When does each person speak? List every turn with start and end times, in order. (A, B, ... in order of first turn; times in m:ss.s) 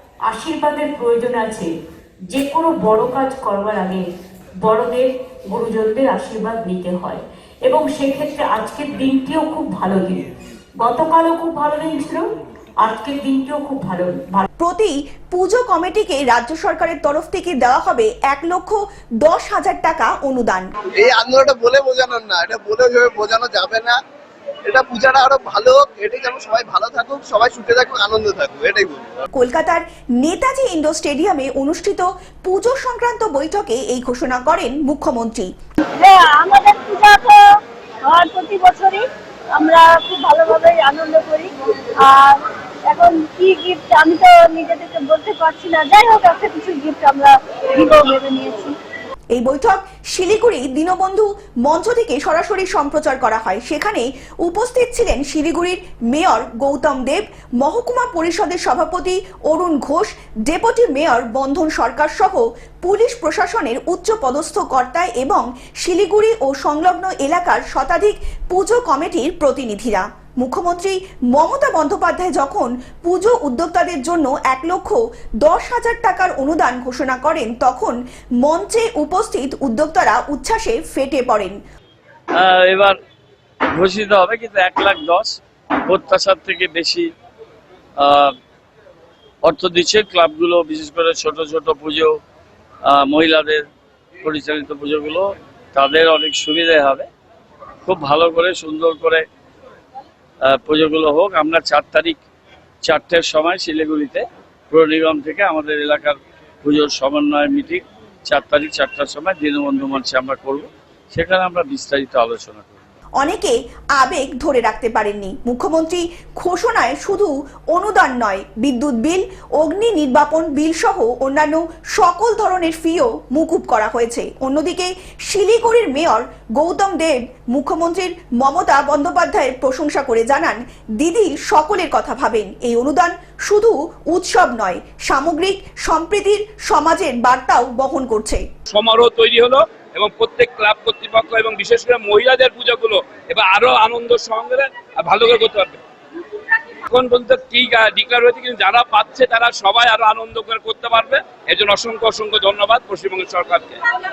0:00.3-0:01.7 A
0:02.3-0:04.0 A
0:04.6-0:12.3 A
0:12.8-0:14.4 A
0:14.6-0:20.7 B
0:21.0-0:24.0 C
0:24.6-0:29.2 C
0:29.3-0:35.5 B
0:36.0-0:37.4 D
0:38.0-0:39.0 D
0:39.5-0:42.4 D
0:42.9-0:48.7 D
0:49.3-1:21.5 B
1:22.3-1:23.0 E
1:23.7-1:27.1 E
1:28.0-1:28.3 E
1:29.4-1:32.2 E
1:32.8-1:33.6 E
1:34.2-1:37.1 E
1:37.8-1:39.2 E
1:40.4-1:42.2 E
1:42.8-1:52.8 E
1:53.2-2:18.4 B
2:18.7-2:25.8 F
2:26.9-2:33.8 F